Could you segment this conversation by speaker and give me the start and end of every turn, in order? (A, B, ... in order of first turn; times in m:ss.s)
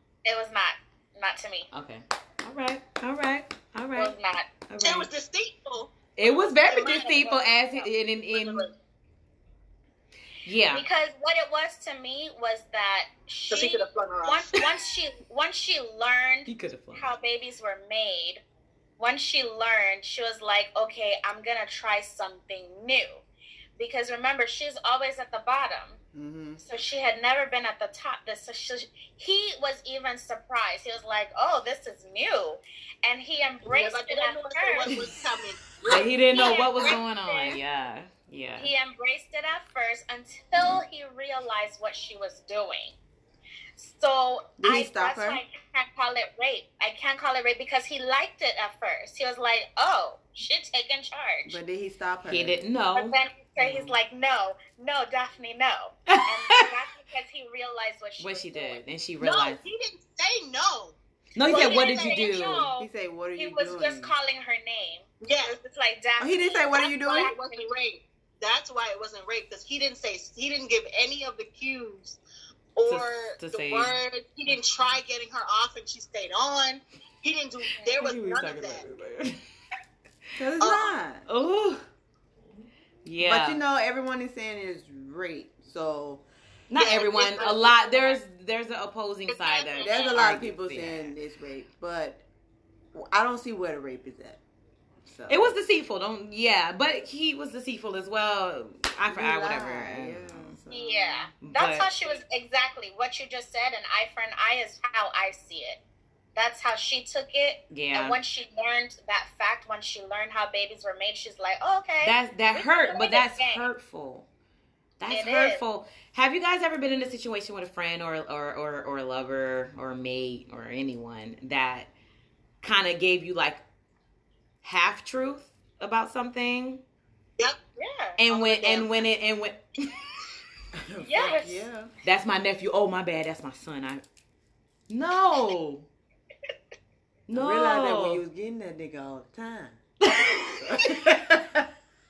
0:00.2-0:01.7 A
0:01.7-0:04.1 B
0:04.0-0:04.5 A
0:04.7-0:05.1 B
0:04.8-0:08.7 C
0:06.2-0:08.7 B
0:10.4-0:10.8 B
0:10.7-0:18.4 A
0:13.5-0:14.6 C
0:16.4-0:17.1 B
0:19.0-0:23.2 A
0:23.8-0:26.0 A
0:26.1-0:26.6 D
0:26.6-0:35.0 A
0:33.6-0:37.0 C
0:35.9-0:38.7 B
0:35.9-0:37.6 A
0:38.6-0:43.0 A
0:43.8-0:51.6 A
0:44.6-0:45.4 D
0:51.4-0:52.6 D
0:52.3-0:54.0 B
0:52.9-0:58.8 A
0:56.1-0:56.7 B
0:58.2-0:59.6 B
0:59.2-1:02.4 C
1:01.3-1:02.7 B
1:01.4-1:07.6 A
1:02.8-1:04.1 D
1:05.2-1:05.6 C
1:06.2-1:07.3 D
1:07.0-1:12.2 C
1:12.7-1:18.8 C
1:12.9-1:14.0 B
1:18.0-1:19.4 B
1:20.4-1:21.2 D
1:20.6-1:21.0 C
1:21.3-1:21.8 B
1:23.0-1:23.6 B
1:23.2-1:26.2 D
1:26.7-1:31.1 B
1:26.8-1:28.2 C
1:27.4-1:27.8 A
1:29.4-1:30.2 A
1:29.8-1:32.2 D
1:32.9-1:34.4 D
1:35.0-1:35.5 D
1:35.3-1:40.6 B
1:39.1-1:41.3 D
1:40.7-1:45.8 A
1:41.4-1:41.9 B
1:46.3-1:53.7 A
1:47.7-1:48.2 B
1:52.0-1:54.2 B
1:55.0-2:01.9 B
1:55.1-1:55.6 A
2:02.6-2:03.6 B
2:04.6-2:06.8 B
2:07.8-2:08.2 A
2:08.2-2:09.9 B
2:08.3-2:09.0 C
2:10.8-2:11.9 D
2:11.0-2:11.6 A
2:12.0-2:14.0 B
2:14.9-2:15.9 B
2:17.3-2:18.2 B
2:17.3-2:21.6 D
2:20.0-2:21.0 B